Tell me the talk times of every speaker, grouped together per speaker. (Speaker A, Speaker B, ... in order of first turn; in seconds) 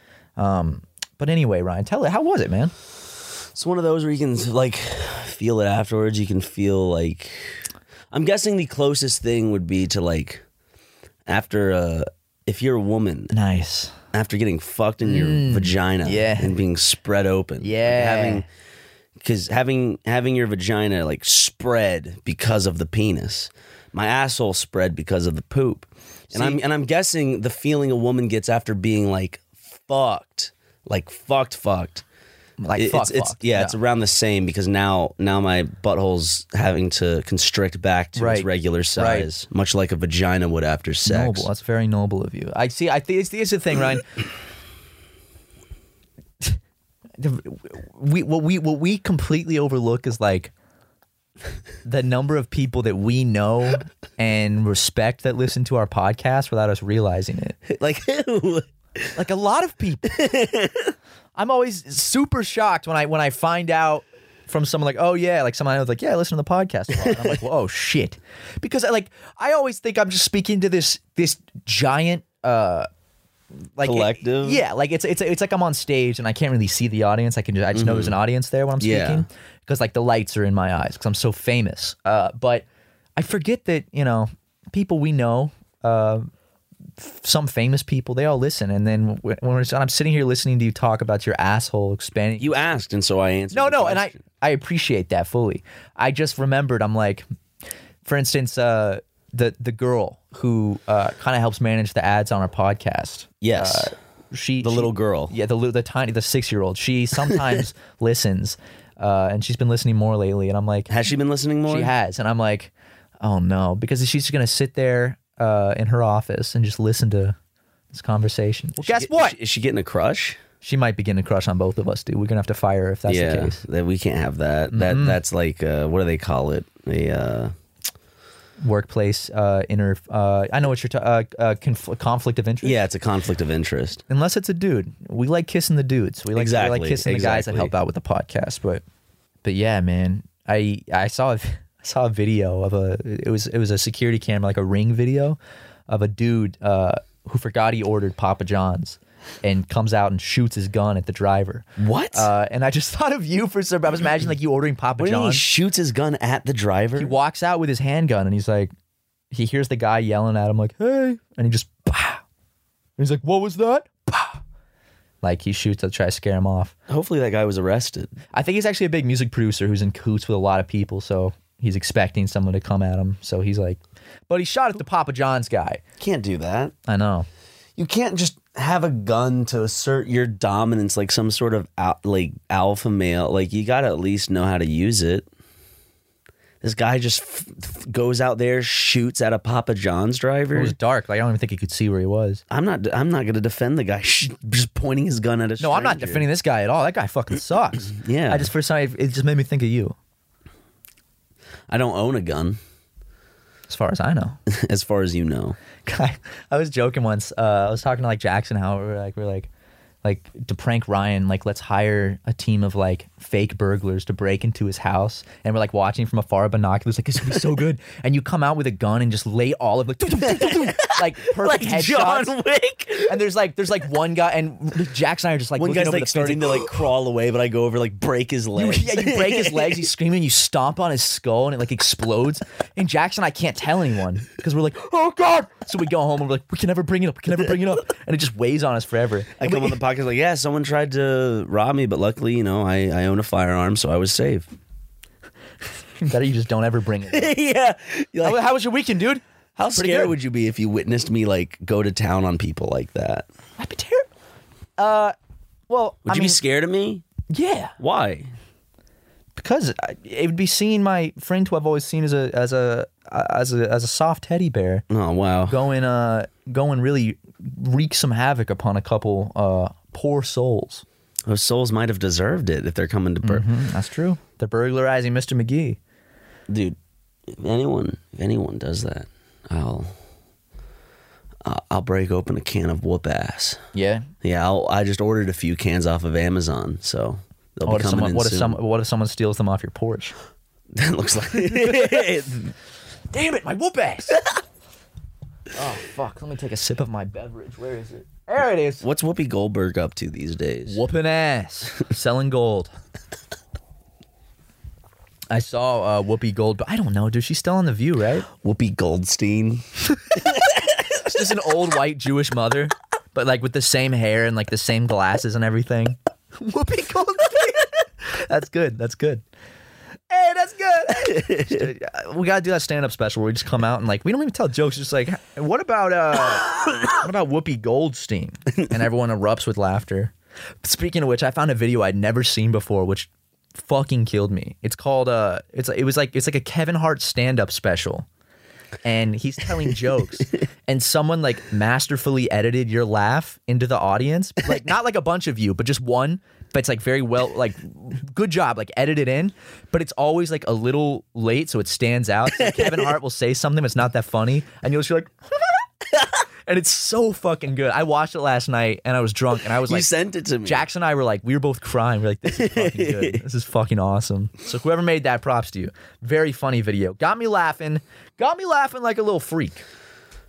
Speaker A: 0.4-2.7, 13.3-13.9, 15.0-16.6, 17.6-18.4, 26.3-26.6, 32.6-33.7, 38.1-39.3, 41.0-44.1, 47.2-50.5, 51.8-57.6, 59.1-60.1, 61.4-72.9, 73.8-82.6, 83.2-86.3, 87.0-92.5, 93.5-97.2, 98.0-110.9, 111.7-117.3, 117.9-119.3, 120.6-123.6, 124.7-125.2, 128.6-132.8, 134.1-138.8, 139.4-145.4, 145.9-155.4, 157.0-158.7, 159.3-162.2, 163.0-164.4, 165.2-166.7, 168.3-175.8, 176.8-177.3, 190.5-192.4, 195.6-199.9, 203.7-204.4, 205.8-209.5, 210.0-222.3, 223.1-226.8, 228.6-239.8, 246.0-247.3, 248.2-250.1, 253.6-254.1, 254.8-255.1, 255.7-256.4, 257.3-257.7, 259.4-264.8, 265.5-270.8, 273.2-275.8, 283.7-284.1, 287.6-290.1, 291.4-292.1, 293.1-294.2, 295.5-298.8, 300.6-302.7, 305.3-308.3, 311.0-319.2, 320.1-338.1, 338.8-355.6, 356.5-359.9, 360.4-369.6
Speaker B: 3.5-10.4, 11.3-13.3, 14.1-18.4, 19.2-32.0, 32.8-41.5, 57.6-59.1, 60.0-60.9, 67.0-67.4, 73.8-74.6, 77.7-78.2, 78.8-79.2, 92.4-94.2, 103.4-103.9, 104.6-105.3, 110.9-111.9, 118.8-120.4, 123.1-127.5, 132.6-134.0, 136.3-137.7, 151.8-152.3, 155.0-157.1, 166.9-168.1, 176.0-176.7, 177.8-185.3, 186.6-190.7, 192.5-196.2, 197.8-198.5, 201.7-202.6, 204.5-205.6, 220.2-223.2, 225.6-229.9, 239.4-244.5, 247.1-248.4, 249.6-253.3, 256.1-257.0, 257.8-258.3, 264.9-265.6, 271.2-273.4, 276.5-276.8, 277.3-279.9, 281.4-283.6, 284.2-288.6, 290.7-292.5, 298.8-300.8, 308.3-309.6, 321.1-321.6, 352.4-352.9, 359.6-360.6, 362.3-363.2